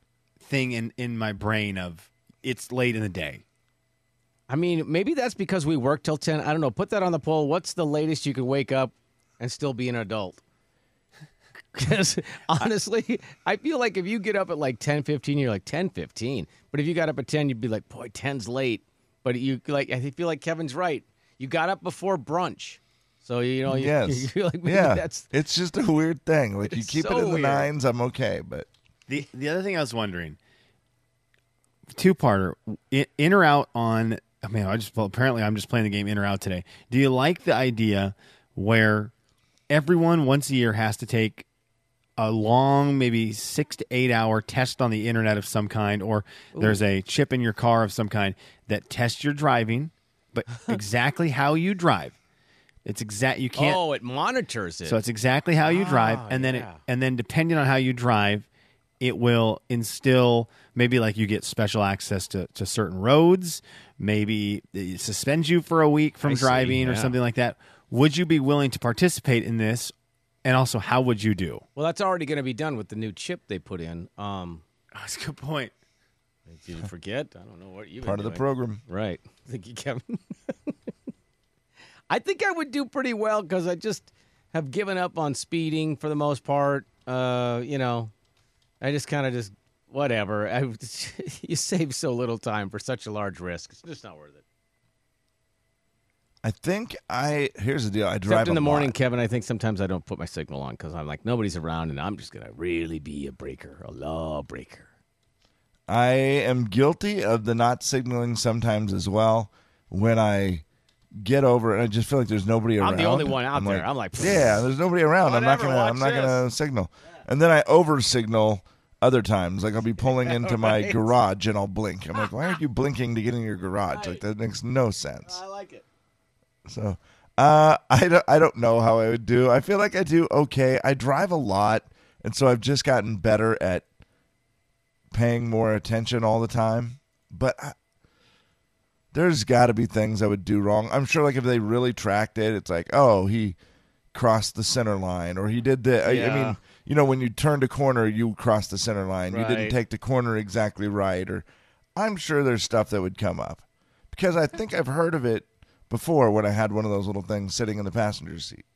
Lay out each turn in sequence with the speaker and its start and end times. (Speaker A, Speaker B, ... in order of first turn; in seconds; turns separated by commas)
Speaker A: 0.4-3.4, Speaker B: 4.5-10.4, Speaker B: 11.8-25.3, Speaker C: 23.7-28.7, Speaker B: 26.7-27.7, Speaker A: 29.1-30.4, Speaker A: 31.9-39.1, Speaker A: 39.7-41.5, Speaker A: 42.2-52.2, Speaker B: 46.5-46.8, Speaker A: 52.9-53.8, Speaker B: 53.6-55.0, Speaker A: 54.9-58.5, Speaker B: 55.6-56.8, Speaker A: 59.0-69.9, Speaker B: 66.2-67.2, Speaker A: 70.4-71.7, Speaker B: 71.8-74.6, Speaker A: 74.9-75.7, Speaker B: 76.5-80.7, Speaker C: 78.0-78.8, Speaker B: 82.1-88.1, Speaker B: 88.8-94.4, Speaker C: 96.4-99.0, Speaker B: 98.3-104.9, Speaker C: 105.9-110.6, Speaker C: 111.2-125.4, Speaker B: 112.8-114.6, Speaker B: 115.2-116.4, Speaker B: 120.0-121.1, Speaker B: 123.9-124.2, Speaker B: 125.2-125.8, Speaker C: 126.7-133.9, Speaker C: 135.1-137.8, Speaker C: 139.1-143.6, Speaker C: 144.1-158.6, Speaker B: 146.0-146.6, Speaker B: 149.3-149.8